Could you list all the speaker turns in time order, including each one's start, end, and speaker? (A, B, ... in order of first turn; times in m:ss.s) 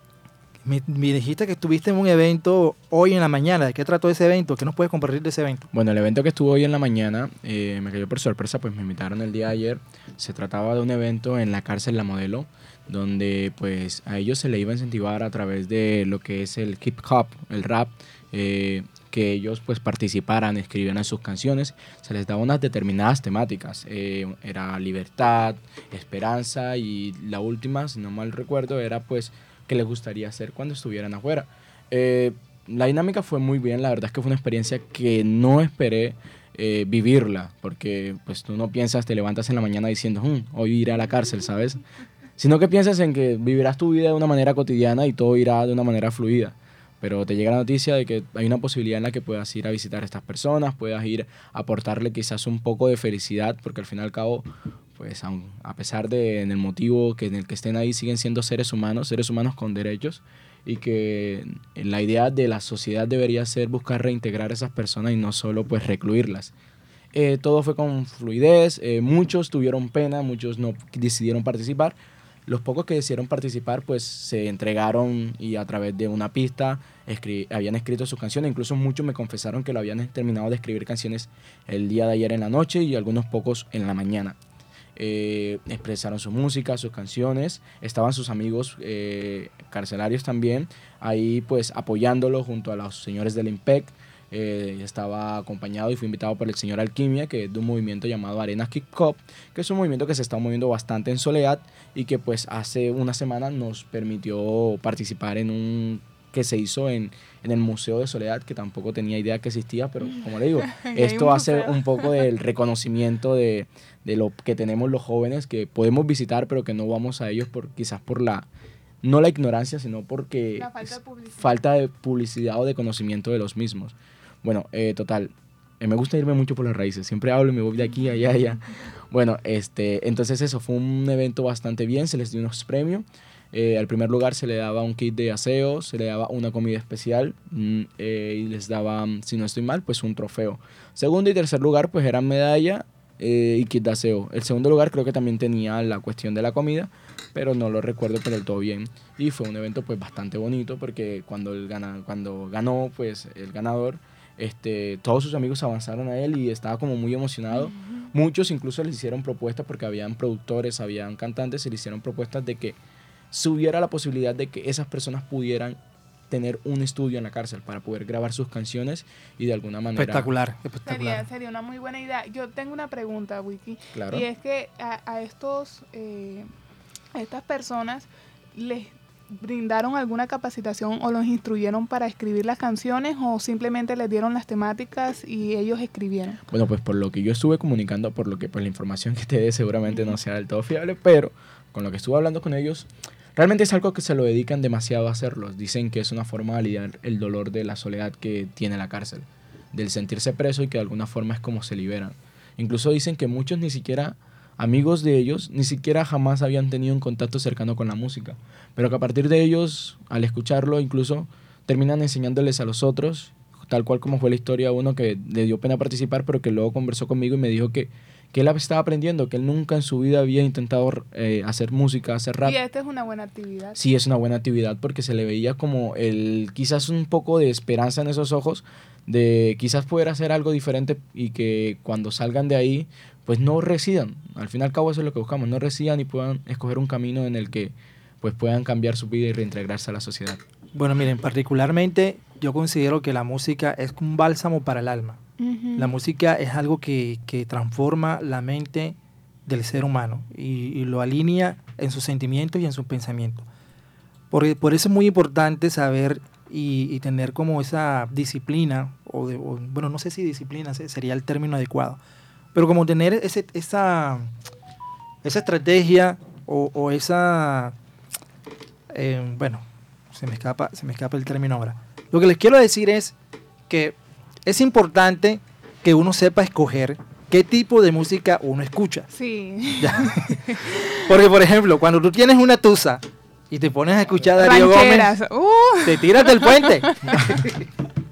0:00.6-0:05.7 A
0:05.7-0:41.8 B
0:42.4-1:06.5 B
1:07.1-1:11.9 B
1:12.5-1:24.4 B
1:25.0-1:58.5 B
1:50.7-1:52.1 C
1:59.0-2:42.8 B
2:00.6-2:01.6 C
2:37.5-2:38.0 C
2:43.3-2:45.8 B
2:46.3-2:50.3 B
2:50.0-2:51.2 A
2:50.8-2:56.5 C
2:53.9-2:54.2 B
2:57.1-3:06.4 C
3:06.5-3:42.6 B
3:09.9-3:10.2 C
3:42.4-3:43.8 C
3:43.7-4:00.4 B
4:00.7-4:05.2 A
4:05.4-4:05.9 C
4:05.8-4:13.4 A
4:14.3-4:22.0 A
4:22.5-4:24.3 A
4:25.2-4:27.8 A
4:28.9-4:33.1 A
4:33.7-4:34.0 A
4:34.5-4:39.1 A
4:39.1-4:40.8 C
4:39.8-4:45.1 A
4:44.4-4:47.3 C
4:45.8-4:47.6 A